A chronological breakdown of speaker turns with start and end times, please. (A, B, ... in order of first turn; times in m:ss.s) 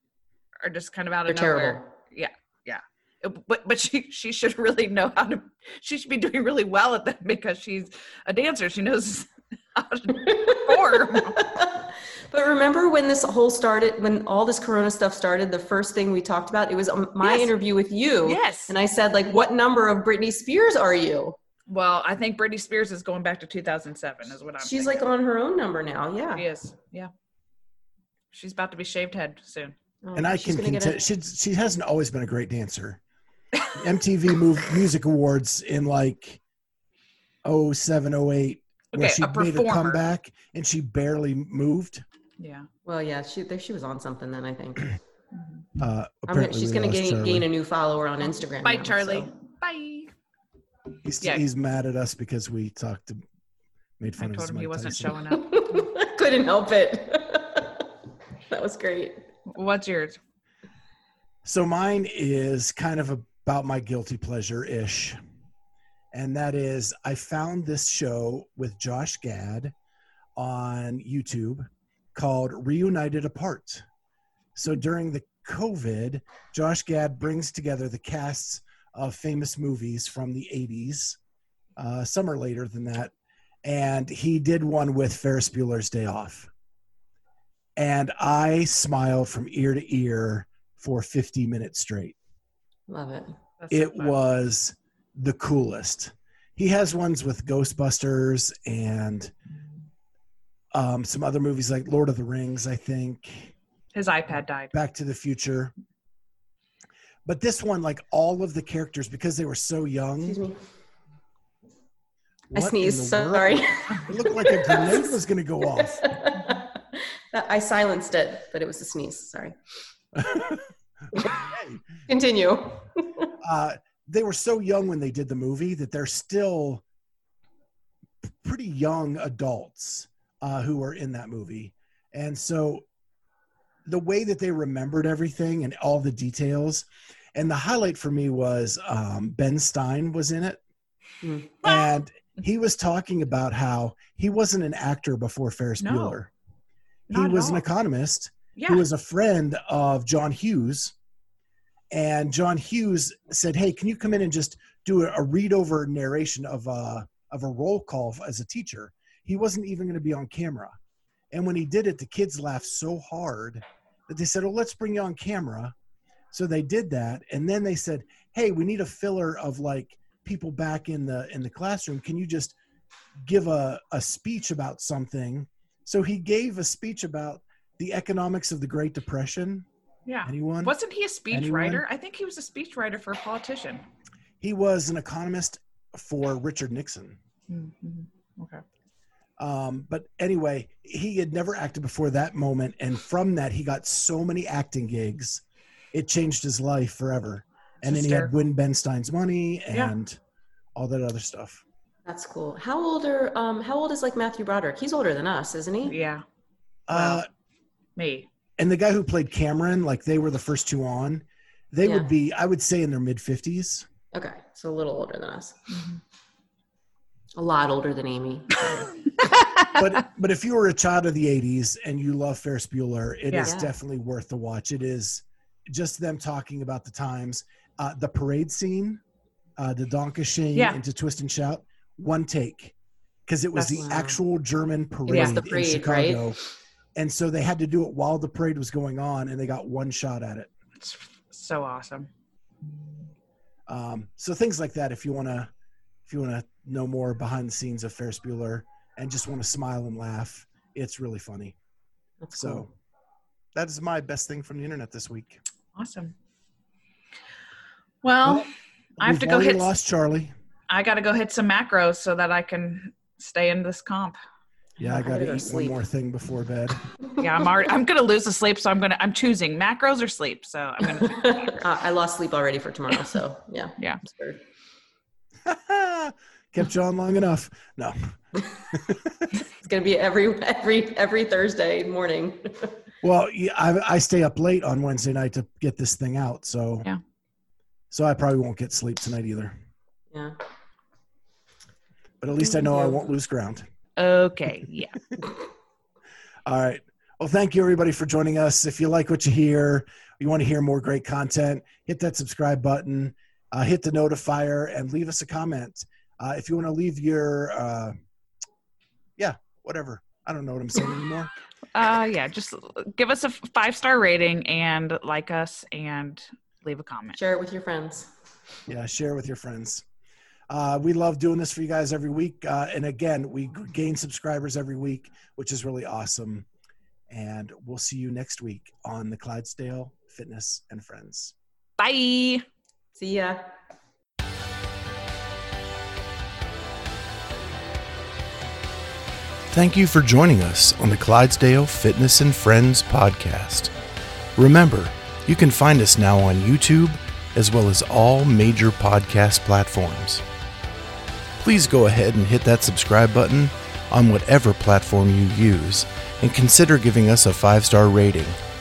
0:00.6-0:11.4 A
0:01.3-0:01.9 B
0:10.3-0:21.4 B
0:17.2-0:17.5 A
0:18.2-0:18.8 A
0:21.7-0:25.0 A
0:24.6-0:26.5 B
0:26.4-0:27.1 A
0:28.3-0:29.8 A
0:30.0-0:31.0 B
0:30.2-0:33.0 C
0:33.8-0:36.4 C
0:37.4-0:42.0 C
0:38.9-0:40.0 A
0:42.4-0:42.7 A
0:42.8-0:45.0 B
0:45.3-0:45.7 A
0:45.8-0:47.5 C
0:46.3-0:49.3 B
0:48.5-0:50.1 A
0:51.0-0:53.2 C
0:54.0-0:55.2 C
0:54.2-0:55.9 A
0:55.3-0:57.9 B
0:58.5-0:59.3 B
0:59.5-1:00.2 A
1:01.4-1:05.2 C
1:06.1-1:09.7 C
1:10.4-1:13.8 C
1:14.6-1:21.2 C
1:21.8-1:23.1 C
1:23.6-1:26.5 C
1:27.8-1:32.2 C
1:32.9-1:33.4 B
1:33.6-1:34.2 A
1:33.7-1:39.3 C
1:40.7-1:43.5 C
1:43.9-1:44.7 A
1:44.7-1:45.7 C
1:47.2-1:50.4 C
1:50.2-1:50.6 B
1:52.5-1:56.1 C
1:52.5-1:55.1 B
1:55.8-1:59.6 B
2:00.2-2:01.8 C
2:01.2-2:01.4 B
2:02.1-2:03.3 B
2:03.4-2:06.8 C
2:08.2-2:12.9 C
2:13.9-2:20.6 C
2:21.2-2:21.6 B
2:21.6-2:26.3 C
2:21.6-2:21.9 A
2:25.8-2:26.2 A
2:27.1-2:27.6 A
2:27.1-2:31.0 C
2:28.6-2:28.8 A
2:31.9-2:40.8 C
2:41.3-2:45.8 C
2:46.3-2:52.6 C
2:53.2-2:59.7 C
3:00.1-3:03.8 A
3:00.2-3:00.7 C
3:01.3-3:01.8 C
3:04.4-3:07.2 C
3:07.5-3:08.6 A
3:09.4-3:20.2 C
3:17.8-3:18.3 A
3:20.8-3:21.6 C
3:22.1-3:26.0 B
3:25.8-3:26.2 A
3:26.9-3:27.3 C
3:26.9-3:27.2 A
3:28.0-3:28.3 A
3:28.6-3:33.9 C
3:31.8-3:32.1 B
3:34.1-3:35.6 B
3:35.7-3:36.0 A
3:37.3-3:38.9 B
3:38.7-3:39.8 A
3:39.8-3:49.0 C
3:43.4-3:43.7 B
3:49.6-3:52.8 C
3:50.6-3:50.8 A
3:53.3-3:56.4 C
3:53.6-3:54.2 B
3:55.1-3:56.4 B
3:55.1-3:55.4 A
3:57.0-4:00.5 C
4:00.8-4:02.1 A
4:03.7-4:05.5 C
4:06.1-4:11.6 C
4:12.2-4:12.6 B
4:12.4-4:12.7 C
4:13.5-4:15.4 C
4:15.8-4:16.2 A
4:18.0-4:19.7 A
4:19.0-4:20.3 C
4:20.7-4:24.2 A
4:24.8-4:26.8 C
4:24.8-4:25.8 B
4:27.2-4:31.6 A
4:31.0-4:34.4 B
4:35.4-4:38.2 C
4:38.7-4:39.3 C
4:39.6-4:42.8 B
4:43.0-4:46.9 C
4:47.9-4:49.5 C
4:50.1-4:50.4 B
4:52.2-4:53.7 C
4:52.4-4:53.0 B
4:54.0-4:55.0 A
4:56.5-5:08.0 C
5:09.2-5:11.3 C
5:11.7-5:17.2 A
5:17.1-5:18.1 B
5:18.7-5:19.8 C
5:20.5-5:26.5 C
5:27.1-5:31.4 C
5:31.8-5:32.4 A
5:33.0-5:33.4 B
5:39.5-5:43.7 C
5:44.4-5:50.2 C
5:51.4-5:58.4 C